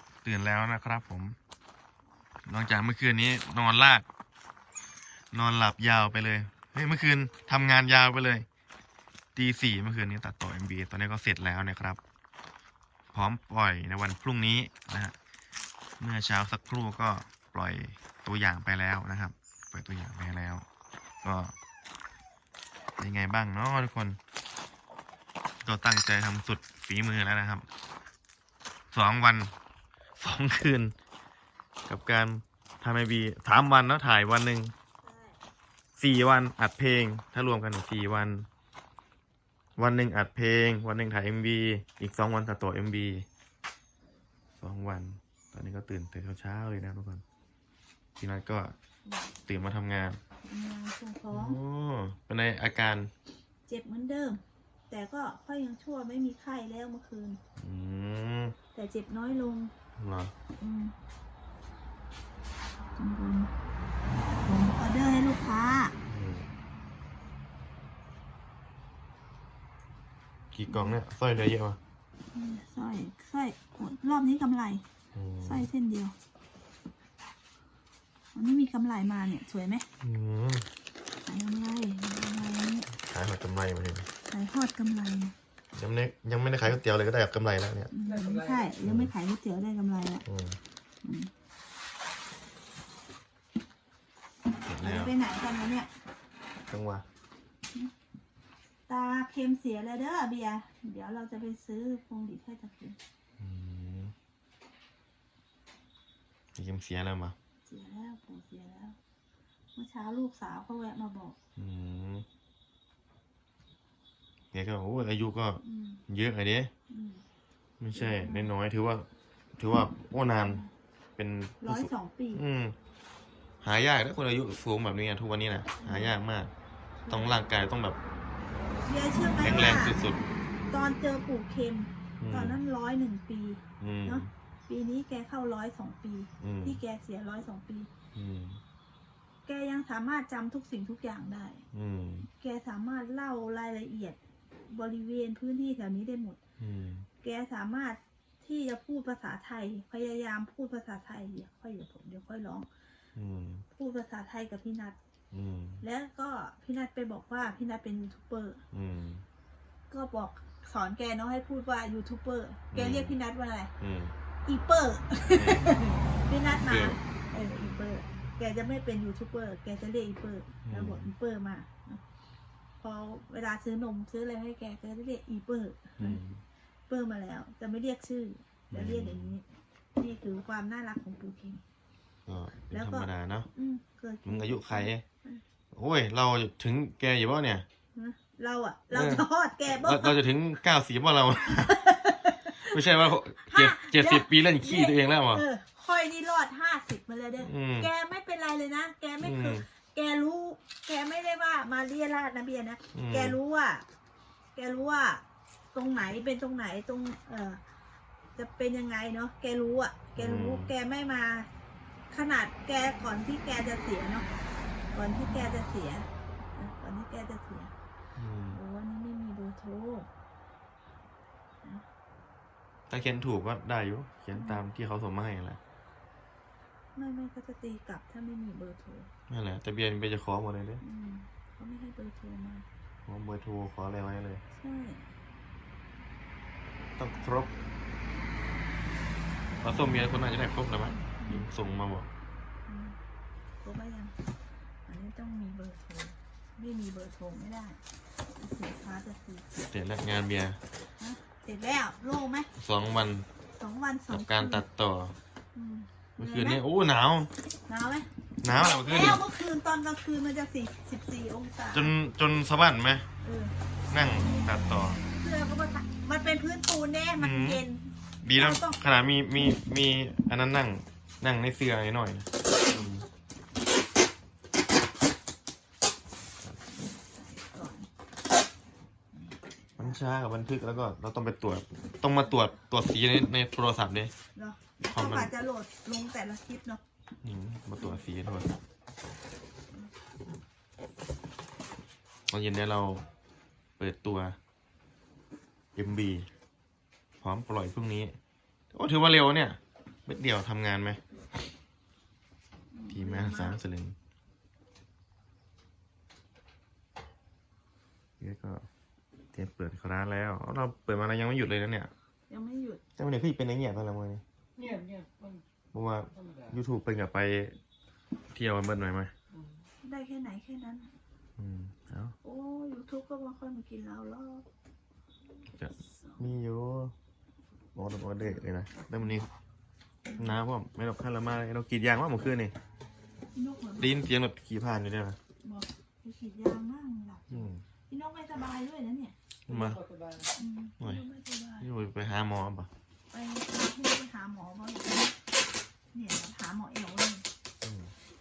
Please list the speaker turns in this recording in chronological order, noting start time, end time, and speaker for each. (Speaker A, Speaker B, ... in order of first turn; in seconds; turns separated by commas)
Speaker A: 0.2-1.4, Speaker A: 2.5-4.1, Speaker A: 5.3-8.5, Speaker A: 9.3-12.0, Speaker A: 13.1-15.2, Speaker A: 16.0-20.6, Speaker A: 21.2-21.5, Speaker A: 23.0-24.2, Speaker A: 25.6-27.6, Speaker A: 28.9-29.5, Speaker A: 30.2-30.9, Speaker A: 31.9-34.7, Speaker B: 35.0-35.4, Speaker A: 36.0-38.5, Speaker A: 39.8-43.3, Speaker A: 44.6-47.2, Speaker A: 48.2-48.8, Speaker B: 49.1-49.3, Speaker A: 49.5-50.2, Speaker B: 50.5-51.6, Speaker A: 51.3-53.1, Speaker B: 53.7-57.4, Speaker A: 57.6-58.5, Speaker B: 58.7-59.7, Speaker A: 60.0-60.3, Speaker B: 60.6-60.9, Speaker B: 63.0-63.5, Speaker B: 64.4-66.0, Speaker A: 66.1-66.5, Speaker A: 70.5-71.8, Speaker B: 70.7-71.0, Speaker B: 72.3-74.8, Speaker A: 75.2-75.7, Speaker B: 75.4-76.2, Speaker B: 78.3-79.9, Speaker A: 80.0-80.7, Speaker B: 81.2-82.9, Speaker A: 83.1-84.1, Speaker B: 84.3-85.3, Speaker A: 85.7-87.9, Speaker B: 87.9-90.2, Speaker C: 88.0-88.8, Speaker A: 88.8-89.1, Speaker A: 90.3-90.6, Speaker B: 91.0-91.3, Speaker A: 94.7-95.2, Speaker B: 94.8-95.9, Speaker A: 96.7-97.0, Speaker B: 98.9-103.0, Speaker A: 103.4-104.1, Speaker A: 106.5-107.4, Speaker B: 107.7-109.0, Speaker B: 109.8-111.4, Speaker A: 111.6-112.2, Speaker A: 114.5-116.7, Speaker B: 115.6-116.0, Speaker B: 116.9-117.2, Speaker A: 117.8-119.1, Speaker B: 117.9-118.5, Speaker A: 119.6-120.6, Speaker B: 120.3-120.7, Speaker A: 121.2-122.8, Speaker B: 121.6-122.4, Speaker A: 123.6-126.5, Speaker B: 125.8-126.2, Speaker B: 127.0-127.4, Speaker A: 127.1-128.0, Speaker B: 128.9-130.0, Speaker A: 129.4-130.2, Speaker B: 130.7-137.9, Speaker A: 132.2-132.6, Speaker A: 133.8-134.3, Speaker A: 136.4-136.8, Speaker A: 138.2-138.6, Speaker B: 139.5-141.6, Speaker A: 141.7-142.3, Speaker B: 142.2-146.4, Speaker A: 146.6-147.1, Speaker B: 147.2-152.7, Speaker A: 153.2-153.7, Speaker B: 153.7-155.0, Speaker A: 155.3-155.8, Speaker B: 155.8-158.6, Speaker A: 158.7-159.2, Speaker B: 159.9-163.7, Speaker A: 162.7-163.2, Speaker A: 163.8-164.1, Speaker B: 164.4-172.0, Speaker A: 165.3-165.7, Speaker A: 166.7-167.0, Speaker A: 170.7-171.1, Speaker B: 172.8-176.2, Speaker A: 176.0-176.4, Speaker B: 176.9-179.4, Speaker A: 178.7-179.3, Speaker B: 180.0-181.6, Speaker A: 182.3-183.5, Speaker B: 182.7-185.4, Speaker A: 184.2-185.0, Speaker A: 185.7-187.7, Speaker B: 187.9-190.2, Speaker A: 188.9-191.8, Speaker B: 191.6-192.8, Speaker A: 192.6-195.4, Speaker B: 193.4-203.8, Speaker A: 197.4-197.9, Speaker A: 199.2-199.7, Speaker A: 202.9-203.4, Speaker B: 204.6-207.6, Speaker B: 208.4-211.5, Speaker A: 210.2-210.7, Speaker B: 212.1-214.3, Speaker B: 214.9-217.7, Speaker A: 218.2-218.6, Speaker B: 218.5-220.1, Speaker A: 222.9-225.6, Speaker B: 224.3-224.6, Speaker B: 226.9-229.1, Speaker A: 229.3-230.8, Speaker B: 230.8-232.7, Speaker A: 233.1-234.4, Speaker B: 234.6-235.1, Speaker A: 237.0-237.5, Speaker A: 239.6-242.1, Speaker B: 241.2-241.5, Speaker B: 242.7-243.0, Speaker B: 243.6-244.2, Speaker B: 244.9-247.8, Speaker B: 248.4-249.6, Speaker A: 249.6-250.6, Speaker B: 251.0-252.5, Speaker A: 252.6-253.3, Speaker B: 253.6-254.6, Speaker A: 254.1-255.2, Speaker B: 255.6-256.6, Speaker A: 256.2-257.3, Speaker B: 257.7-261.9, Speaker A: 258.4-259.2, Speaker A: 261.7-263.1, Speaker B: 263.2-263.5, Speaker A: 263.9-265.0, Speaker B: 265.1-268.8, Speaker A: 267.2-267.6, Speaker A: 268.2-273.1, Speaker B: 276.6-277.9, Speaker B: 279.1-280.0, Speaker A: 279.8-284.1, Speaker B: 284.4-286.8, Speaker A: 284.9-285.3, Speaker A: 287.2-288.5, Speaker A: 292.3-293.1, Speaker A: 293.8-294.4, Speaker A: 295.8-296.3, Speaker A: 297.2-298.1, Speaker A: 298.7-301.0, Speaker B: 302.7-303.6, Speaker A: 302.9-303.9, Speaker A: 308.2-308.6, Speaker A: 309.3-311.9, Speaker B: 312.3-312.8, Speaker A: 313.0-314.2, Speaker C: 314.6-315.4, Speaker A: 315.7-317.6, Speaker C: 316.1-316.6, Speaker A: 318.3-319.1, Speaker C: 319.3-319.6, Speaker B: 319.8-320.9, Speaker A: 321.4-322.2, Speaker B: 322.2-324.4, Speaker A: 325.6-326.9, Speaker B: 325.8-326.2, Speaker A: 327.8-329.3, Speaker B: 330.1-330.4, Speaker A: 330.2-332.5, Speaker B: 333.3-334.0, Speaker A: 333.8-335.2, Speaker B: 335.4-339.1, Speaker A: 337.3-337.6, Speaker A: 339.5-339.8, Speaker C: 339.5-340.3, Speaker B: 340.4-341.7, Speaker A: 341.6-342.7, Speaker B: 343.1-345.2, Speaker B: 345.9-347.2, Speaker A: 347.6-347.9